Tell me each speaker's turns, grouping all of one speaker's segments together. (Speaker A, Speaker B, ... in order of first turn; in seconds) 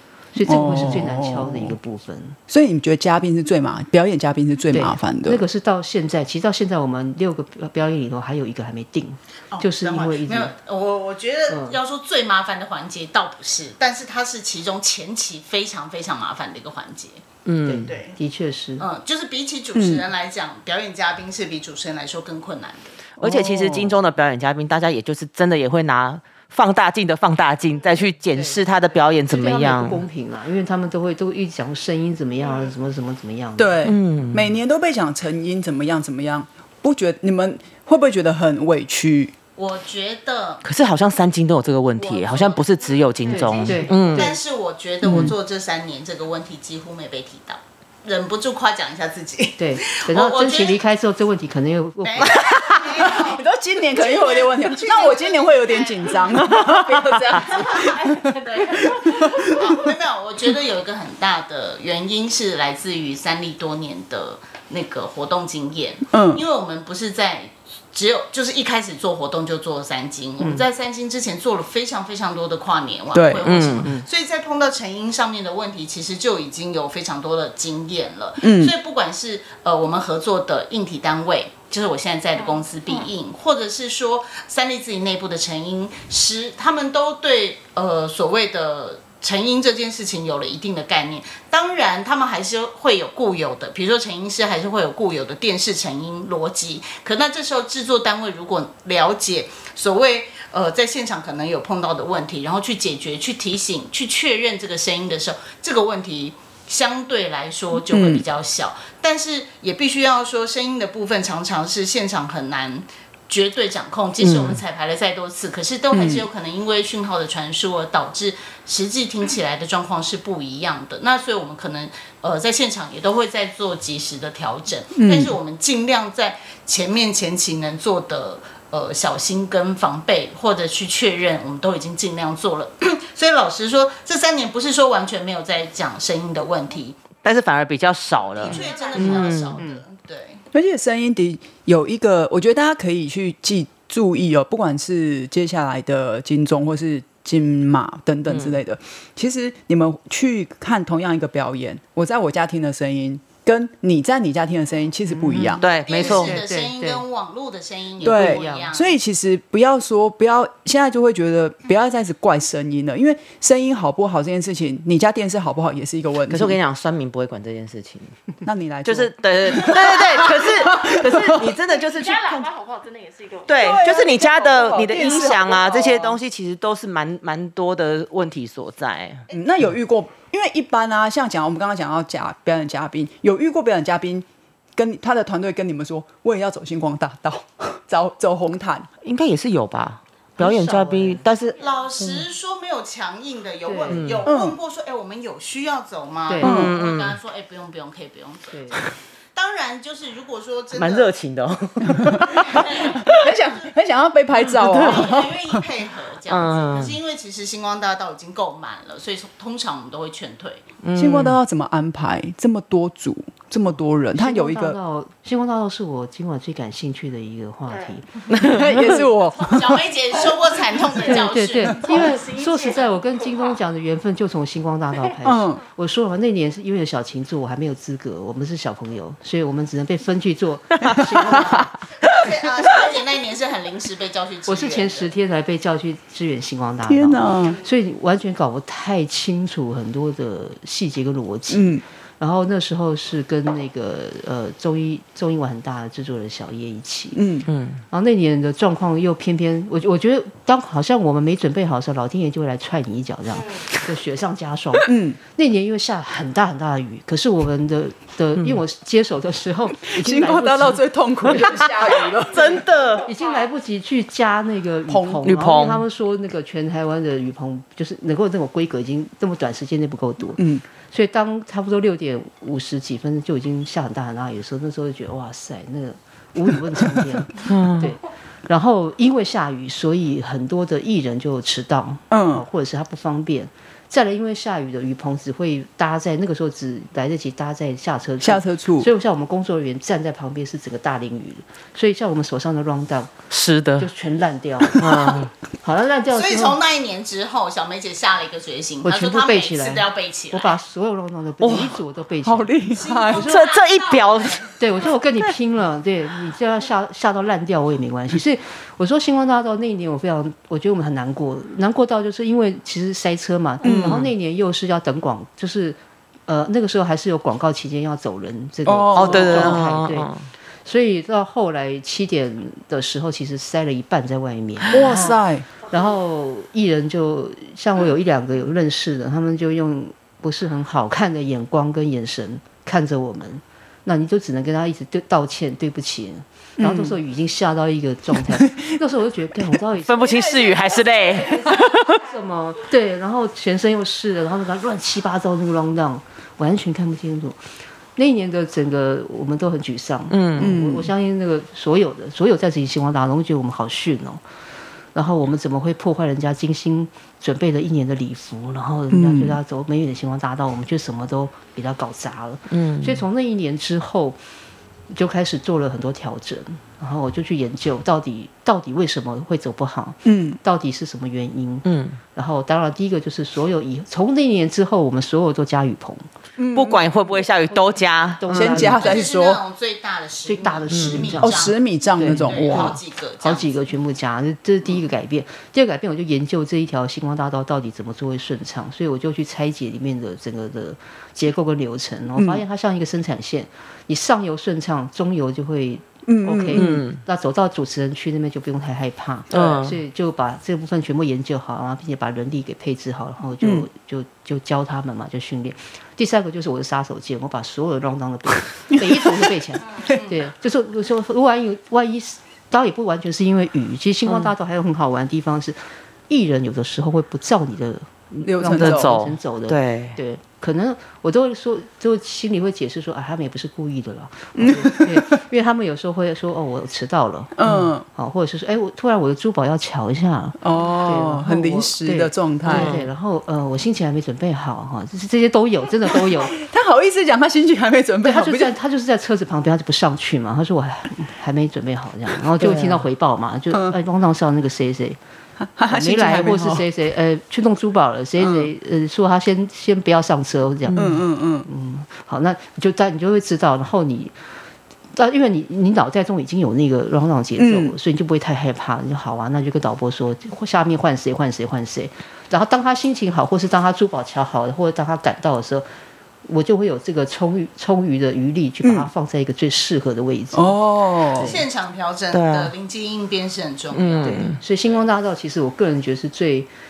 Speaker A: 0.3-2.4, 4.7-10.5, 11.5-11.8, 17.6-18.9, 29.3-33.8, 43.3-44.4, 45.0-45.3, 49.6-52.5, 70.4-70.6, 139.0-139.8, 155.1-157.0, 158.0-158.7, 190.4-191.2, 193.6-194.0, 196.3-196.7, 198.5-198.8, 214.1-218.1, 221.0-231.7, 234.5-247.2, 247.9-261.5, 263.0-293.1, 293.8-296.6, 298.8-302.6, 303.1-303.4, 304.6-320.1, 320.6-340.6, 341.1-347.4, 347.9-354.2, 354.9-364.2, 364.9-376.1, 378.1-379.0, 380.2-415.6, 416.1-436.4, 438.0-445.0, 445.7-454.1, 454.9-465.7, 466.2-470.6, 471.1-471.4, 474.0-476.5
Speaker B: 0.4-1.8, 2.5-5.4, 19.7-20.0, 23.2-23.9, 33.6-39.3, 52.9-59.7, 66.1-66.4, 73.1-73.5, 78.4-78.7, 107.9-108.2, 115.9-116.2, 125.0-125.3, 140.5-155.7, 158.0-166.6, 168.4-171.5, 173.6-175.9, 179.3-188.9, 194.2-194.6, 196.4-196.7, 201.8-205.6, 210.9-214.8, 218.3-219.8, 225.2-225.6, 230.8-231.6, 236.9-237.6, 241.5-241.8, 247.1-247.5, 254.8-255.2, 259.8-262.6, 264.9-265.3, 270.4-270.6, 282.1-282.4, 288.2-288.9, 302.2-303.3, 313.6-314.1, 318.6-319.6, 324.7-325.4, 336.6-337.0, 350.4-350.9, 358.9-359.4, 370.0-370.4, 376.4-376.9, 378.3-379.4, 381.2-382.8, 392.2-392.4, 396.1-396.8, 403.4-403.6, 418.2-418.9, 424.4-425.1, 427.4-427.8, 430.4-432.8, 435.9-438.5, 445.4-446.6, 448.2-448.5, 450.8-451.5, 457.4-457.7, 468.6-468.9, 470.3-471.3
Speaker C: 9.5-17.2, 17.8-18.2, 18.8-23.0, 39.5-40.6, 42.0-50.8, 52.0-56.6, 59.3-137.0, 138.3-140.4, 155.8-159.0, 191.6-201.1, 202.4-203.1, 204.6-210.6, 219.4-222.0, 232.0-235.1, 296.1-300.6, 302.7-304.6, 378.6-383.5, 409.9-410.1, 471.1-474.7
Speaker D: 17.4-17.9, 23.2-30.0, 33.8-34.6, 40.6-44.3, 52.2-53.0, 56.6-57.2, 73.4-73.9, 114.2-114.6, 137.2-139.6, 148.3-148.6, 155.6-156.4, 166.3-168.1, 168.8-172.5, 173.5-179.3, 189.0-192.2, 193.9-194.3, 196.4-197.2, 200.7-203.2, 204.3-205.1, 206.3-207.0, 210.8-211.4, 218.3-219.0, 247.5-247.8, 258.4-258.6, 261.4-261.7, 262.2-263.1, 265.2-265.8, 277.4-277.9, 293.3-293.9, 294.7-295.3, 301.4-301.8, 303.1-304.4, 313.6-314.1, 318.9-320.3, 339.8-342.0, 350.1-350.5, 362.5-363.0, 371.6-372.0, 376.5-378.7, 380.7-381.1, 396.5-397.0, 399.3-399.8, 414.1-414.3, 418.5-420.0, 427.4-427.7, 432.4-432.9, 442.4-442.7, 450.7-451.0, 472.1-472.5, 473.7-474.4
Speaker E: 57.4-59.8, 138.5-139.1, 171.6-176.0, 191.6-191.9, 217.7-218.0, 221.7-223.6, 253.4-253.7, 262.5-263.4, 340.4-342.1